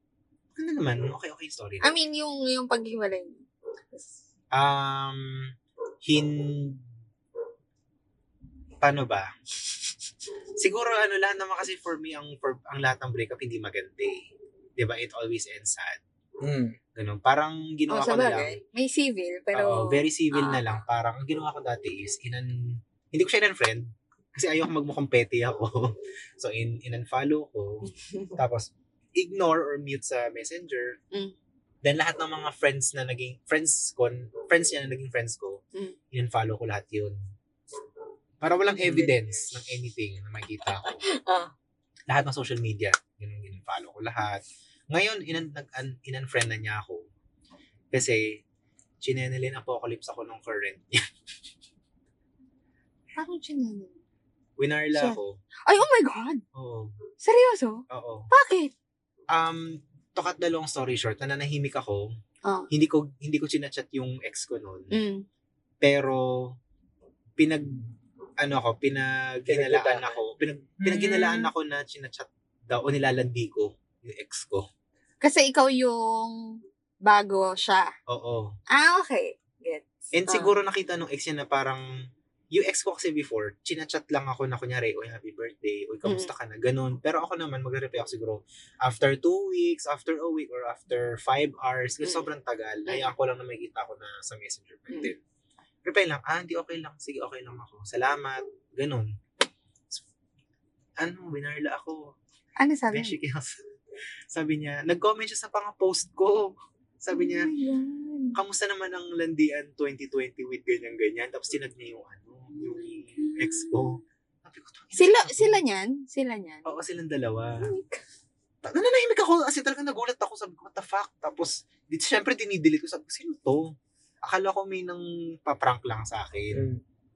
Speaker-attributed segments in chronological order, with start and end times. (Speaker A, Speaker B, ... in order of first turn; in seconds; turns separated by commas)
Speaker A: 0.6-1.9, Speaker B: 1.8-4.2, Speaker A: 4.5-6.8, Speaker A: 8.8-9.3, Speaker A: 10.6-16.0, Speaker C: 16.4-16.8, Speaker A: 16.9-18.6, Speaker B: 17.9-20.6, Speaker A: 19.5-31.0, Speaker B: 27.8-28.4, Speaker A: 31.8-37.2, Speaker A: 38.4-41.0, Speaker B: 38.7-39.5, Speaker C: 38.8-39.1, Speaker B: 40.7-41.5, Speaker A: 42.1-47.1, Speaker A: 47.9-48.4, Speaker A: 49.0-51.1, Speaker B: 53.2-54.0, Speaker A: 54.6-55.4, Speaker B: 54.9-56.4, Speaker A: 56.5-57.0, Speaker B: 57.2-58.7, Speaker A: 57.9-58.3, Speaker A: 59.3-62.1, Speaker A: 62.7-64.9, Speaker B: 64.9-65.2, Speaker A: 65.8-66.6, Speaker A: 67.4-67.7, Speaker A: 68.4-74.7, Speaker C: 69.5-70.2, Speaker C: 70.8-71.5, Speaker B: 75.2-77.9, Speaker A: 78.1-78.5, Speaker B: 78.7-80.5, Speaker A: 80.1-81.8, Speaker A: 82.5-95.2, Speaker B: 86.0-86.3, Speaker A: 95.8-99.1, Speaker A: 101.0-102.2, Speaker B: 102.6-103.2, Speaker A: 102.9-103.6, Speaker A: 104.3-107.5, Speaker B: 107.1-108.4, Speaker A: 108.3-115.6, Speaker B: 112.9-114.0, Speaker B: 115.0-116.8, Speaker A: 116.6-117.6, Speaker B: 117.6-118.0, Speaker A: 118.6-126.7, Speaker C: 126.5-126.8